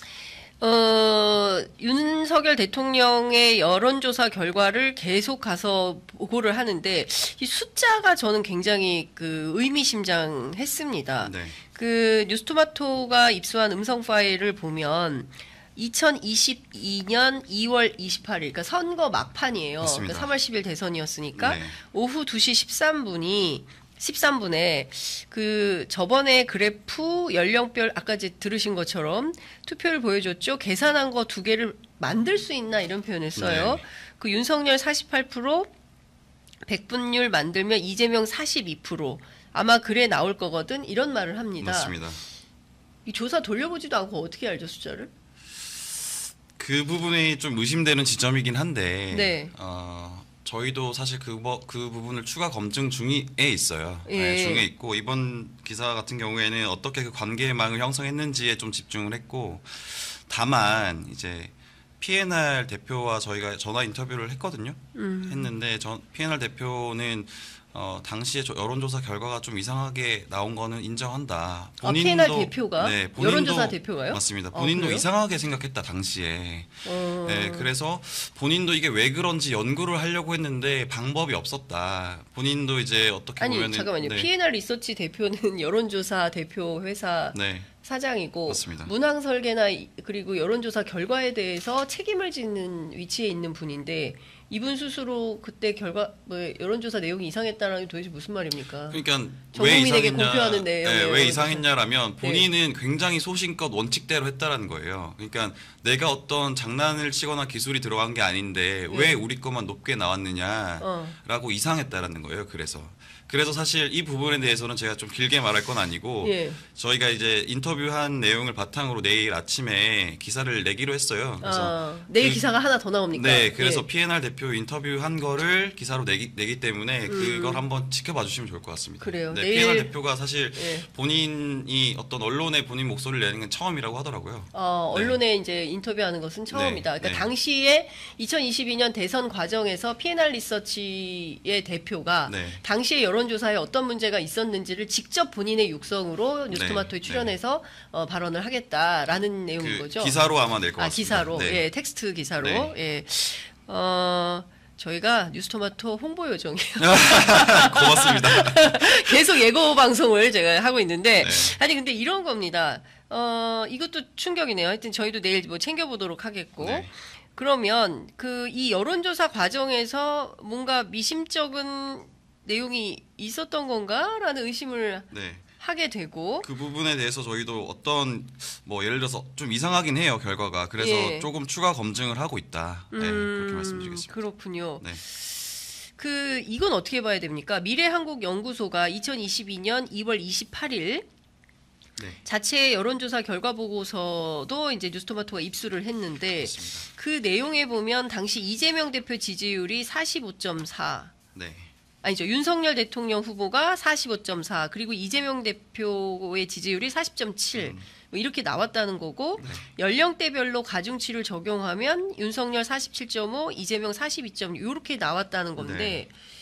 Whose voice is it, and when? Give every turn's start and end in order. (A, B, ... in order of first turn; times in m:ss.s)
0:00.6-0:35.7 A
0:11.2-0:11.6 B
0:19.8-0:20.3 B
0:21.4-0:21.8 B
0:33.4-0:33.8 B
0:36.6-0:41.9 A
0:41.6-0:42.2 B
0:43.0-0:45.1 A
0:46.6-1:24.3 B
0:49.1-0:49.5 A
0:54.1-0:54.6 A
1:04.9-1:05.5 A
1:11.8-1:15.0 A
1:16.8-1:17.7 A
1:23.4-1:39.0 A
1:27.3-1:27.7 B
1:28.5-1:28.9 B
1:38.9-2:02.4 B
1:39.5-1:41.6 A
1:42.2-1:42.4 A
1:48.9-1:49.2 A
1:50.8-1:51.2 A
1:56.2-1:56.6 A
2:01.4-2:03.8 A
2:03.1-2:15.2 B
2:07.1-2:07.6 A
2:09.0-2:09.9 A
2:10.5-2:10.9 A
2:14.5-2:30.1 A
2:16.5-2:17.3 B
2:22.3-2:22.6 B
2:26.5-2:27.3 B
2:29.6-2:31.6 B
2:30.8-2:56.5 A
2:32.4-2:32.7 B
2:36.8-2:39.1 B
2:41.2-2:41.6 B
2:46.6-2:46.9 B
2:55.1-2:55.4 B
2:56.4-3:04.2 B
3:00.8-3:01.3 A
3:02.9-3:11.0 A
3:12.0-3:12.2 B
3:12.2-3:21.1 A
3:16.4-3:16.9 B
3:21.3-3:21.7 B
3:22.0-3:36.1 A
3:27.5-3:27.8 B
3:29.4-3:29.6 B
3:35.6-3:36.0 B